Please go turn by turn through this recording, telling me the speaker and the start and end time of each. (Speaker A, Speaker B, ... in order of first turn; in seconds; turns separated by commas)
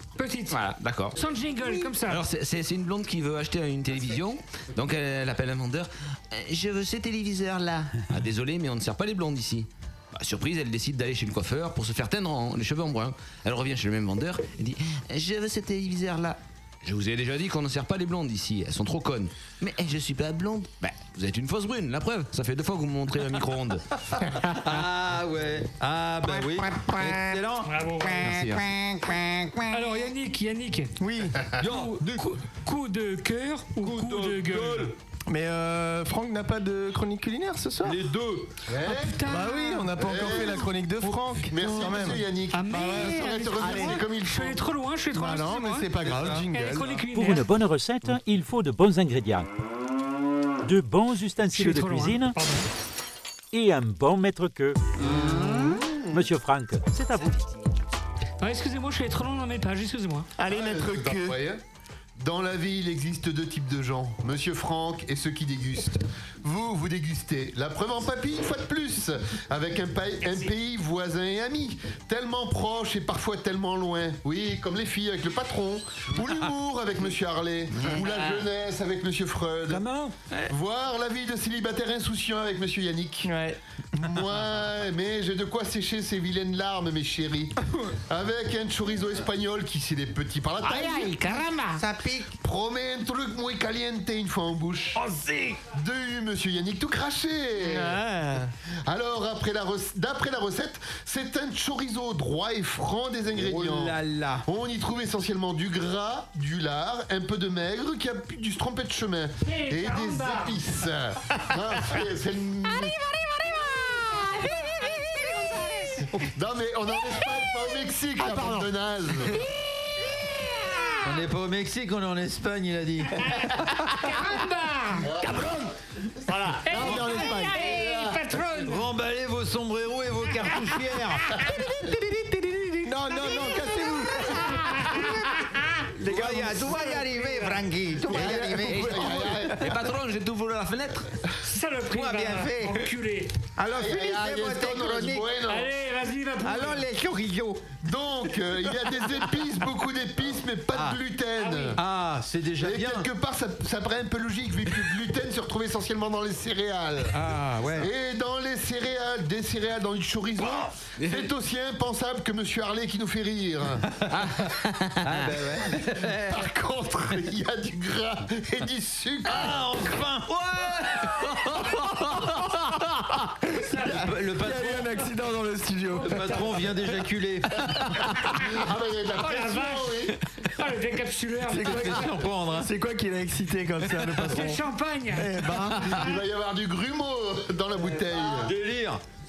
Speaker A: 0.2-0.6, Speaker B: 0.5-1.2, Speaker A: 1.1-2.2, Speaker B: 1.9-23.8, Speaker C: 24.5-28.6, Speaker A: 27.6-28.4, Speaker B: 28.2-28.7, Speaker A: 29.7-30.9, Speaker D: 31.0-31.4, Speaker C: 31.6-32.4, Speaker A: 31.6-34.9, Speaker C: 33.8-34.9, Speaker D: 35.3-38.0, Speaker C: 37.8-38.5, Speaker E: 38.7-39.2, Speaker A: 38.9-41.8, Speaker D: 39.2-44.0, Speaker E: 40.0-40.6, Speaker E: 41.5-44.6, Speaker A: 42.5-45.9, Speaker D: 45.1-47.0, Speaker C: 46.1-46.4, Speaker A: 46.5-47.5, Speaker F: 47.1-49.5, Speaker F: 50.6-52.3, Speaker A: 51.5-52.7, Speaker F: 53.5-55.6, Speaker A: 55.2-55.8, Speaker F: 56.1-57.5, Speaker A: 58.4-60.3, Speaker D: 60.4-61.4, Speaker E: 60.5-61.6, Speaker E: 62.2-79.8, Speaker B: 77.9-78.3, Speaker E: 80.5-83.3, Speaker D: 83.2-83.6, Speaker E: 83.9-87.5, Speaker E: 88.1-91.5, Speaker E: 92.3-95.0, Speaker E: 95.7-98.0, Speaker D: 97.6-98.5, Speaker E: 98.9-113.0, Speaker C: 103.3-104.4, Speaker A: 109.4-110.6, Speaker E: 116.3-119.4, Speaker D: 118.2-118.7, Speaker C: 121.0-123.2, Speaker A: 123.2-125.1, Speaker E: 125.0-125.5, Speaker D: 125.2-125.7, Speaker D: 126.3-127.7, Speaker A: 126.6-128.8, Speaker E: 126.7-128.2, Speaker C: 128.6-131.3, Speaker D: 131.9-132.3, Speaker D: 132.8-135.0, Speaker A: 133.3-135.7, Speaker D: 136.0-139.4, Speaker C: 136.0-138.6, Speaker E: 138.1-139.7, Speaker B: 138.1-141.1, Speaker A: 141.4-143.3, Speaker C: 141.9-142.8, Speaker E: 143.7-145.7, Speaker A: 145.5-146.8, Speaker C: 146.5-146.9, Speaker E: 147.8-151.8, Speaker C: 150.7-151.0, Speaker A: 151.4-151.8, Speaker C: 151.8-153.1, Speaker E: 152.6-157.1, Speaker C: 157.1-157.9, Speaker E: 157.8-163.8, Speaker B: 161.0-161.3, Speaker C: 164.0-164.5, Speaker B: 164.1-165.3, Speaker C: 165.0-166.5, Speaker E: 166.3-169.7, Speaker C: 169.2-172.2, Speaker D: 173.7-176.3, Speaker C: 173.8-174.9, Speaker C: 176.0-177.9, Speaker E: 178.4-180.1, Speaker A: 179.2-182.0, Speaker D: 181.5-184.6, Speaker C: 181.6-182.7, Speaker A: 184.3-186.1, Speaker D: 185.1-185.9, Speaker E: 185.9-188.5, Speaker C: 188.1-189.0